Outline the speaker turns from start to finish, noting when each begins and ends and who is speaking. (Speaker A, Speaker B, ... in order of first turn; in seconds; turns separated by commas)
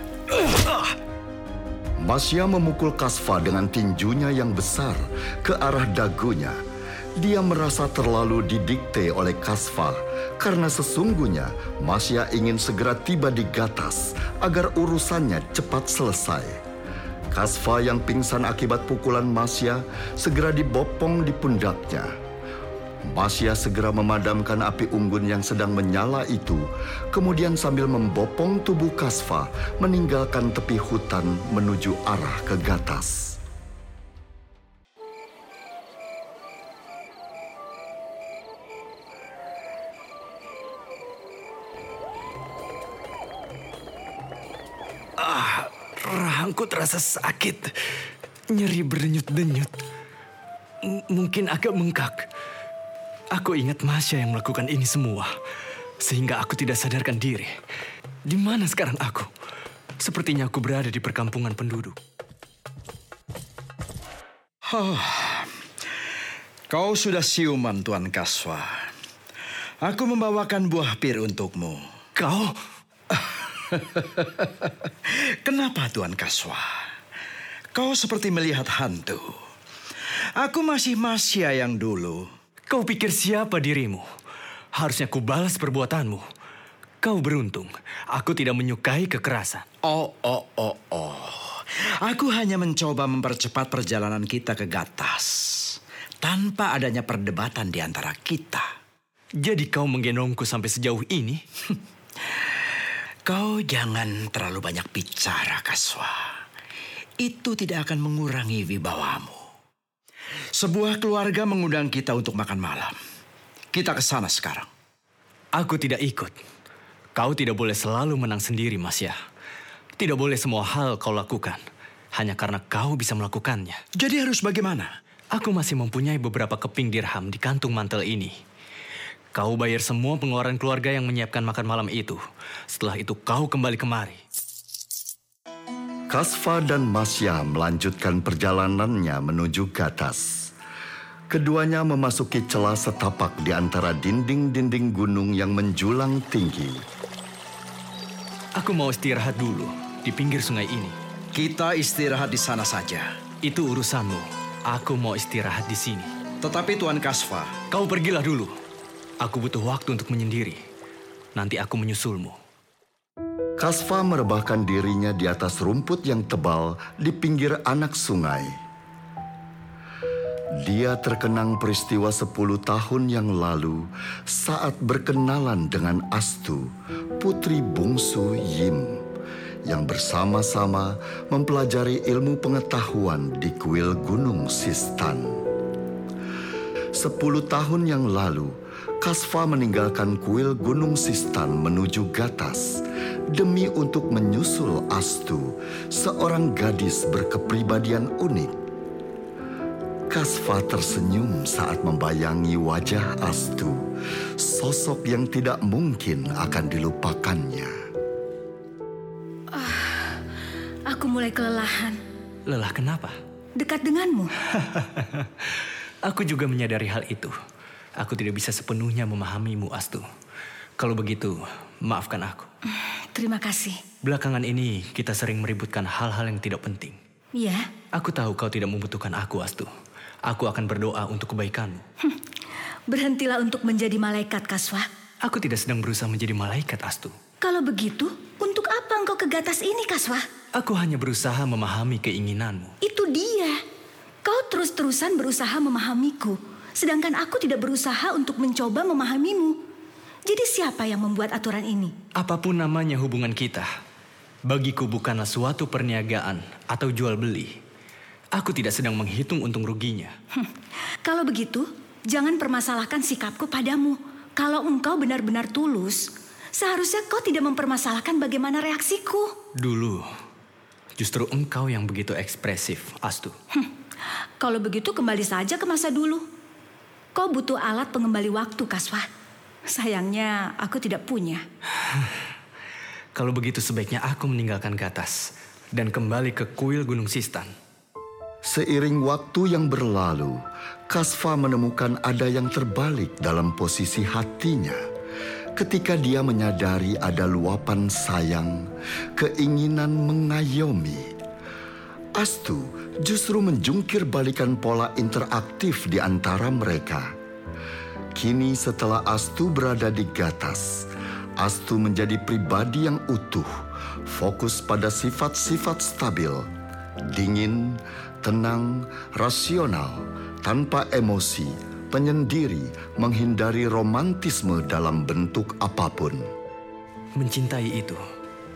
Speaker A: 0.6-0.9, Speaker B: 2.0-6.6, Speaker B: 7.2-16.5, Speaker B: 17.3-22.1, Speaker B: 23.1-33.4, Speaker C: 45.2-47.7, Speaker C: 48.5-49.7, Speaker C: 50.8-52.2, Speaker C: 53.3-55.3, Speaker C: 56.0-57.5, Speaker C: 58.3-59.3, Speaker C: 60.0-62.0, Speaker A: 64.7-65.5, Speaker A: 66.7-68.9, Speaker A: 69.8-71.8, Speaker C: 72.2-72.5, Speaker A: 73.7-74.7, Speaker A: 75.4-76.7, Speaker A: 77.7-79.3, Speaker A: 80.4-82.2, Speaker C: 82.7-84.0, Speaker C: 84.8-86.2, Speaker C: 87.0-89.6, Speaker A: 89.8-98.6, Speaker C: 99.4-101.4, Speaker A: 103.2-106.2, Speaker A: 107.2-109.4, Speaker A: 110.5-112.9, Speaker A: 113.7-114.7, Speaker C: 115.6-116.3, Speaker C: 117.2-119.1, Speaker C: 120.0-121.6, Speaker C: 122.1-123.8, Speaker A: 124.0-124.9, Speaker C: 125.3-128.3, Speaker C: 129.3-132.2, Speaker C: 132.7-134.2, Speaker B: 136.1-140.5, Speaker B: 141.3-146.8, Speaker C: 148.6-150.9, Speaker A: 151.3-153.1, Speaker C: 153.4-156.1, Speaker A: 156.4-157.5, Speaker C: 157.7-158.5, Speaker C: 159.2-160.6, Speaker C: 161.3-162.4, Speaker B: 163.6-168.5, Speaker B: 170.6-179.0, Speaker B: 179.7-185.3, Speaker B: 186.9-192.8, Speaker B: 193.3-198.5, Speaker B: 200.1-203.8, Speaker B: 204.4-207.7, Speaker D: 209.5-210.2, Speaker D: 210.8-212.0, Speaker C: 212.5-213.2, Speaker D: 213.6-214.3, Speaker C: 214.6-215.2, Speaker C: 216.0-217.3, Speaker C: 218.0-220.0, Speaker C: 220.8-222.5, Speaker D: 223.1-223.8, Speaker C: 224.0-227.0, Speaker D: 227.3-227.7, Speaker C: 227.9-229.7, Speaker C: 230.3-231.8, Speaker D: 232.9-234.8, Speaker C: 235.2-237.1, Speaker D: 237.4-240.2, Speaker C: 240.5-242.7, Speaker D: 242.8-243.6, Speaker D: 244.2-249.6, Speaker D: 250.3-251.9, Speaker C: 252.2-253.7, Speaker C: 254.5-257.5, Speaker C: 258.3-260.1, Speaker D: 261.0-269.3, Speaker C: 269.6-270.0, Speaker C: 271.0-273.3, Speaker D: 274.4-276.2, Speaker D: 277.1-279.1, Speaker D: 279.7-281.4, Speaker C: 283.1-285.2, Speaker C: 285.7-287.5, Speaker B: 288.4-294.8, Speaker B: 295.6-298.6, Speaker B: 299.2-301.1, Speaker B: 302.2-307.1, Speaker B: 308.1-310.9, Speaker B: 311.4-313.5, Speaker B: 314.1-316.5, Speaker B: 317.1-326.2, Speaker C: 327.2-328.0